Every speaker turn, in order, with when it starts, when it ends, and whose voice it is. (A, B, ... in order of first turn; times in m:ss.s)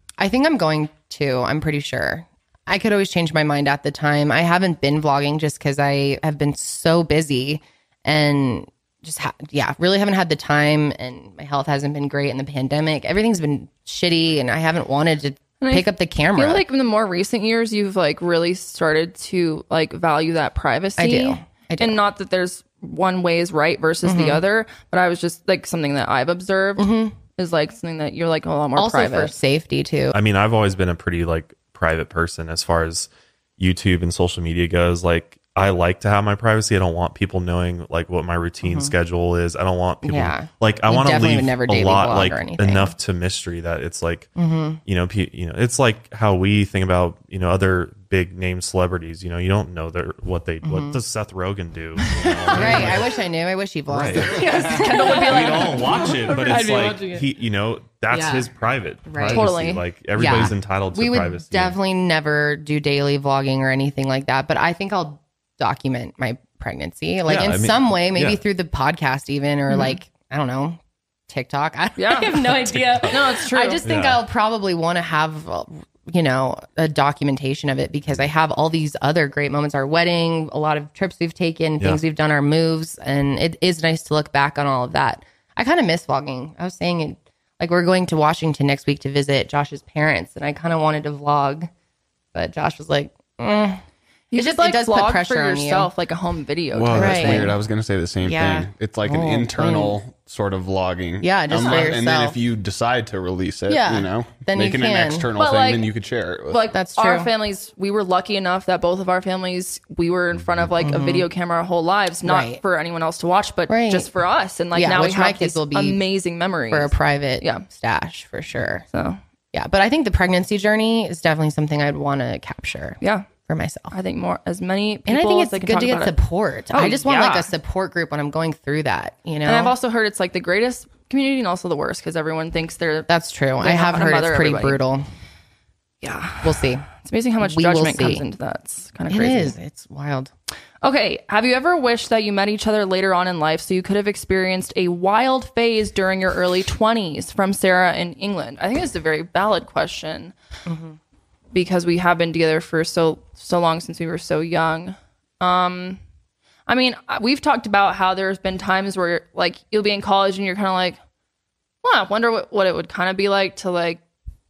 0:00.2-0:16.6 A
0:15.6-0:29.3 B
0:21.0-0:22.0 A
0:24.0-0:24.4 A
0:26.8-0:27.1 A
0:28.8-0:30.2 A
0:30.1-0:44.3 C
0:38.6-0:38.9 A
0:40.0-0:42.9 A
0:44.4-0:44.8 A
0:44.8-0:53.1 C
0:50.6-0:51.0 A
0:52.2-0:55.8 A
0:53.9-1:01.8 C
0:54.2-0:57.2 B
0:56.3-0:57.1 A
0:58.1-0:58.5 A
0:59.0-0:59.4 A
0:59.3-0:59.8 B
1:00.1-1:31.7 A
1:07.3-1:08.4 C
1:09.7-1:10.0 B
1:12.0-1:13.8 B
1:12.5-1:13.1 C
1:13.8-1:14.2 C
1:32.3-1:33.8 A
1:34.3-1:37.5 B
1:34.3-1:35.9 A
1:36.7-1:46.7 D
1:36.9-1:37.6 A
1:38.2-1:40.0 A
1:41.2-1:42.4 A
1:41.6-1:41.9 B
1:43.7-1:45.3 A
1:45.4-1:45.9 B
1:46.5-1:57.6 B
1:46.7-1:47.3 A
1:50.8-1:51.3 A
1:52.2-1:52.6 A
1:53.7-1:54.1 A
1:54.7-1:56.0 A
1:56.7-1:58.8 A
1:58.9-1:59.2 B
1:59.5-2:03.9 A
2:03.0-2:03.2 B
2:03.9-2:06.1 B
2:05.1-2:09.7 A
2:06.7-2:07.5 B
2:09.4-2:13.1 B
2:13.1-2:15.0 A
2:13.6-2:14.8 B
2:16.0-2:19.5 B
2:16.4-2:16.8 A
2:17.4-2:18.2 A
2:19.1-2:20.3 A
2:20.8-2:30.3 B
2:30.6-2:31.0 A
2:31.5-2:36.0 B
2:36.7-2:41.0 B
2:41.8-2:44.0 B